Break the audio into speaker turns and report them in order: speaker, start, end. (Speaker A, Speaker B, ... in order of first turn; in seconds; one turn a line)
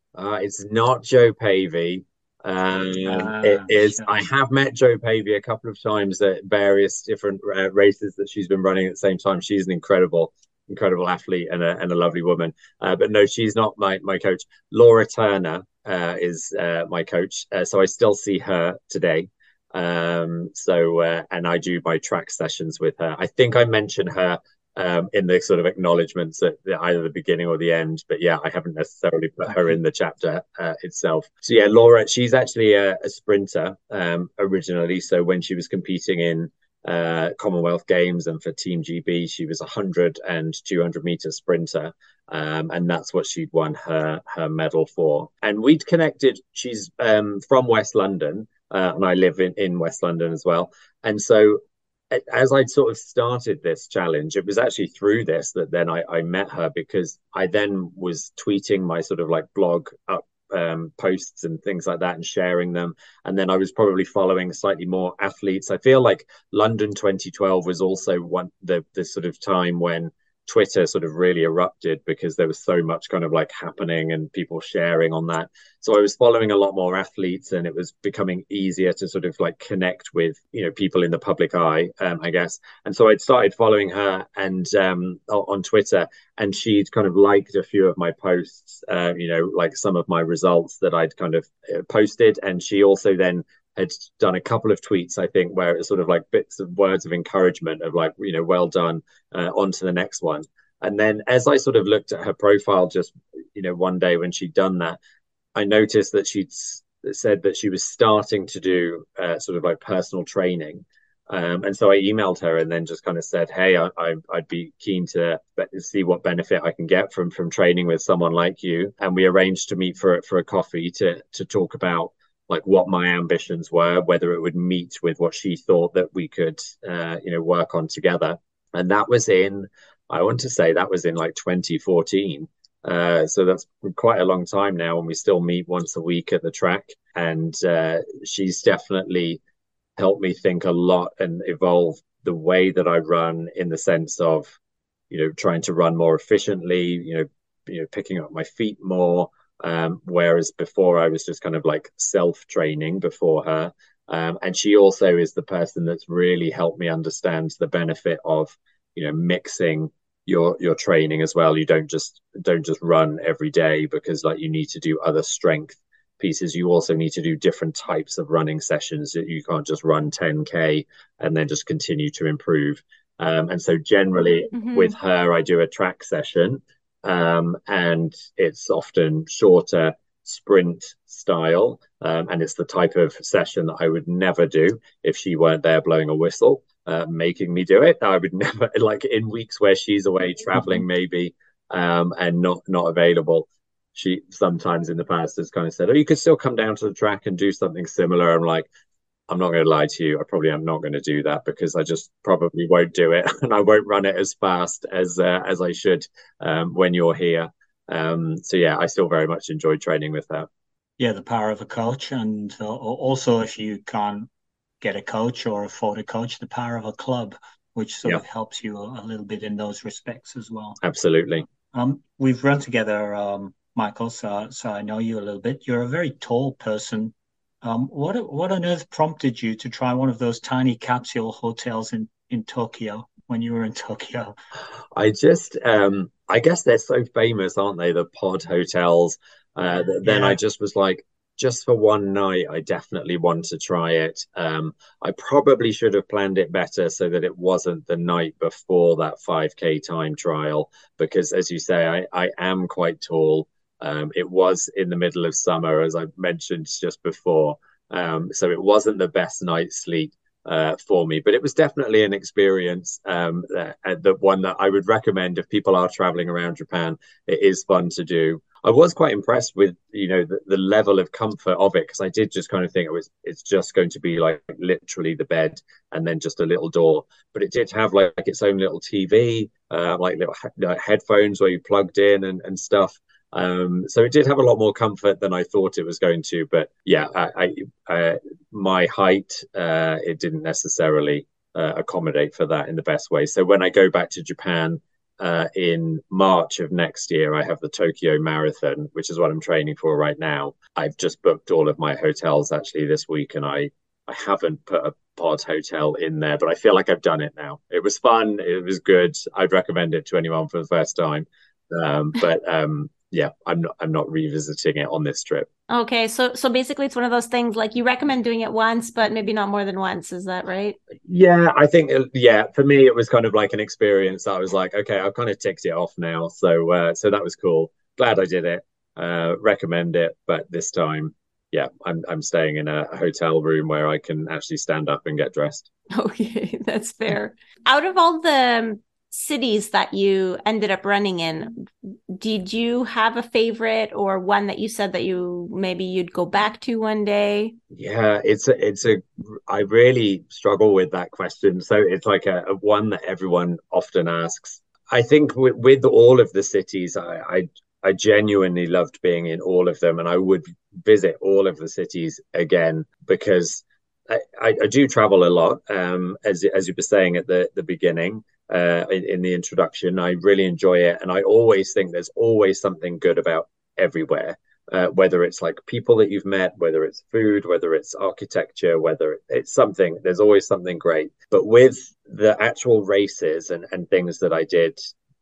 Speaker A: 0.1-105.0
Speaker B: 3.1-4.0
Speaker A: 105.5-139.4
Speaker A: 140.0-144.6
Speaker A: 145.1-198.7
Speaker C: 174.5-174.9
Speaker A: 199.3-210.5
Speaker B: 211.0-214.3
Speaker B: 214.8-220.8
Speaker A: 220.8-221.4
Speaker B: 221.7-234.3
Speaker A: 234.9-315.5
Speaker B: 240.0-240.4
Speaker C: 315.7-320.8
Speaker A: 321.1-335.7
Speaker C: 335.9-347.6
Speaker A: 347.7-384.8